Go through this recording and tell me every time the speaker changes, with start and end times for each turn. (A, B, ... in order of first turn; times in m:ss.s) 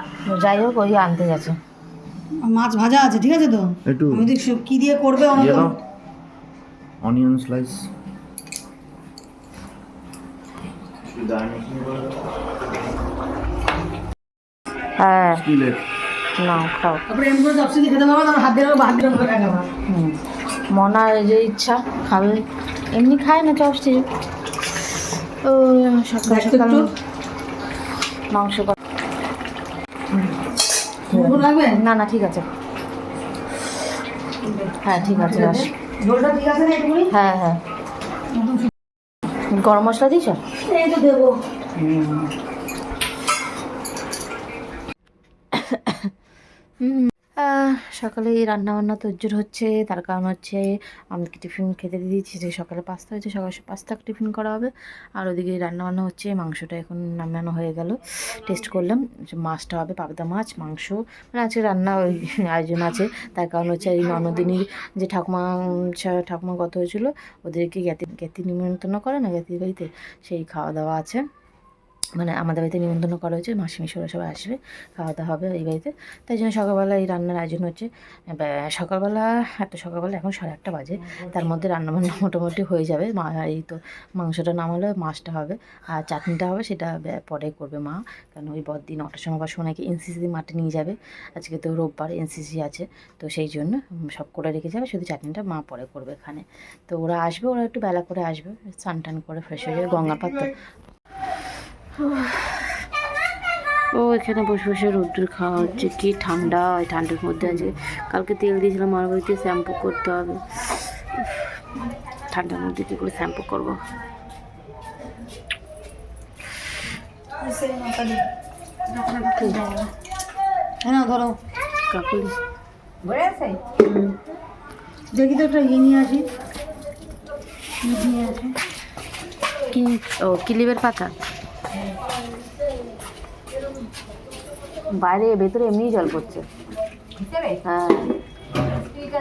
0:00.3-0:01.6 A
0:02.4-0:05.8 B
0:03.9-0:04.2 C
0:05.4-0:05.7 C
0:07.0-0:07.8 C
0:11.1-0:12.0 C
0:15.0-0:15.5 A
0:15.5-0:15.8 C
0:16.4-0:17.0 A
0:17.1-0:19.7 B
0:19.9-0:20.2 A
0:20.7-0:22.4 A
0:22.9-0:24.0 A
0:25.4-0:26.9 A
0:26.2-0:26.8 B
0:28.3-0:28.7 A
0:31.1-0:31.8 B
0:31.1-0:32.4 A
0:34.4-0:37.1 B
0:34.8-0:35.7 A
0:37.1-0:37.6 A
0:38.4-0:38.7 B
0:39.5-0:40.4 A
0:40.6-0:41.4 B
0:41.8-0:42.3 A
0:45.5-0:46.1 A
0:46.8-1:11.2 A
1:12.2-1:40.5 A
1:42.0-1:42.7 A
1:43.9-1:50.8 A
1:52.3-1:53.8 A
1:57.4-1:58.2 B
1:59.1-1:59.7 B
2:00.8-2:01.4 B
2:01.9-2:02.4 A
2:05.1-2:06.3 B
2:07.8-2:08.5 B
2:09.7-2:11.1 A
2:14.9-2:16.4 A
2:17.6-2:18.1 A